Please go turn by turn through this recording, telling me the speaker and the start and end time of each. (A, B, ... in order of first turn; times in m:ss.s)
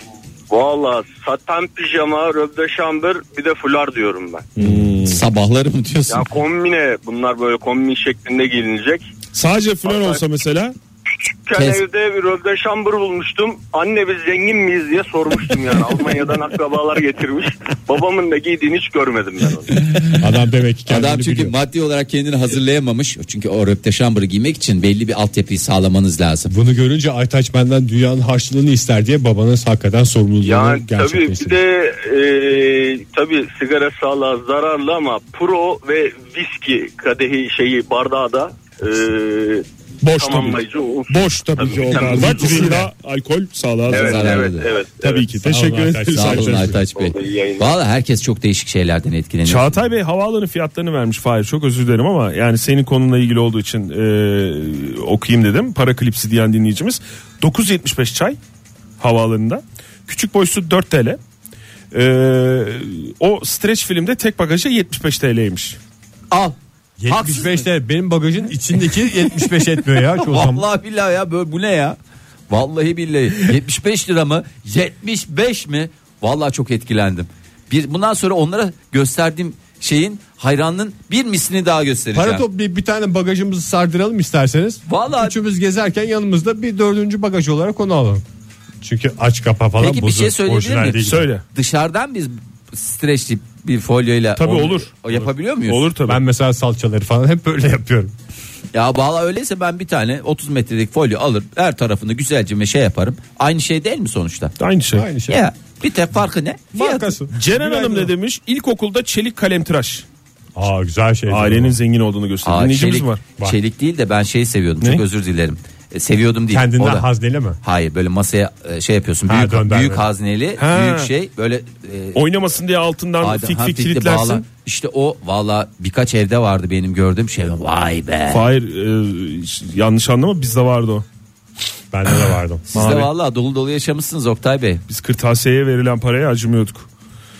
0:00.5-0:04.5 A
0:04.6-0:05.2 B
0:05.0-0:06.3 C
0:06.1-0:09.1 A
0:09.3-0:10.8 B
0:09.9-0:10.2 A
0:11.3-0:19.7 A
0:11.5-0:11.8 C
0:19.8-0:20.2 C
0:20.2-0:21.5 D
0:20.9-0:26.5 C
0:26.5-0:31.6 D
0:30.4-0:42.8 A
0:40.0-0:44.5 B
0:42.0-0:42.8 D
0:43.9-0:44.7 C
0:43.9-0:45.3 A
0:45.0-0:46.8 B
0:45.4-0:46.8 D
0:46.1-0:49.8 C
0:46.9-0:47.7 A
0:49.4-0:58.4 B
0:59.0-1:01.2 B
1:01.9-1:05.8 B
1:06.3-1:06.6 C
1:07.0-1:10.6 D
1:07.1-1:07.7 C
1:09.0-1:12.0 C
1:12.5-1:22.4 C
1:22.1-1:28.2 D
1:24.9-1:25.4 C
1:28.8-1:31.3 D
1:29.8-1:35.8 C
1:31.0-1:31.4 B
1:34.4-1:36.2 B
1:36.1-1:38.1 D
1:38.7-1:44.5 C
1:44.6-1:45.0 B
1:44.9-1:45.4 D
1:45.3-1:47.1 C
1:46.7-1:48.1 D
1:47.3-1:50.0 B
1:50.6-1:51.8 D
1:51.3-1:53.2 B
1:52.4-1:57.1 C
1:56.5-1:57.6 D
1:57.6-2:02.2 C
1:59.3-2:00.0 D
2:00.6-2:01.1 B
2:02.1-2:04.4 B
2:03.2-2:08.4 C
2:08.3-2:11.0 B
2:11.9-2:12.6 D
2:12.7-2:14.8 C
2:12.7-2:13.1 B
2:14.9-2:16.9 B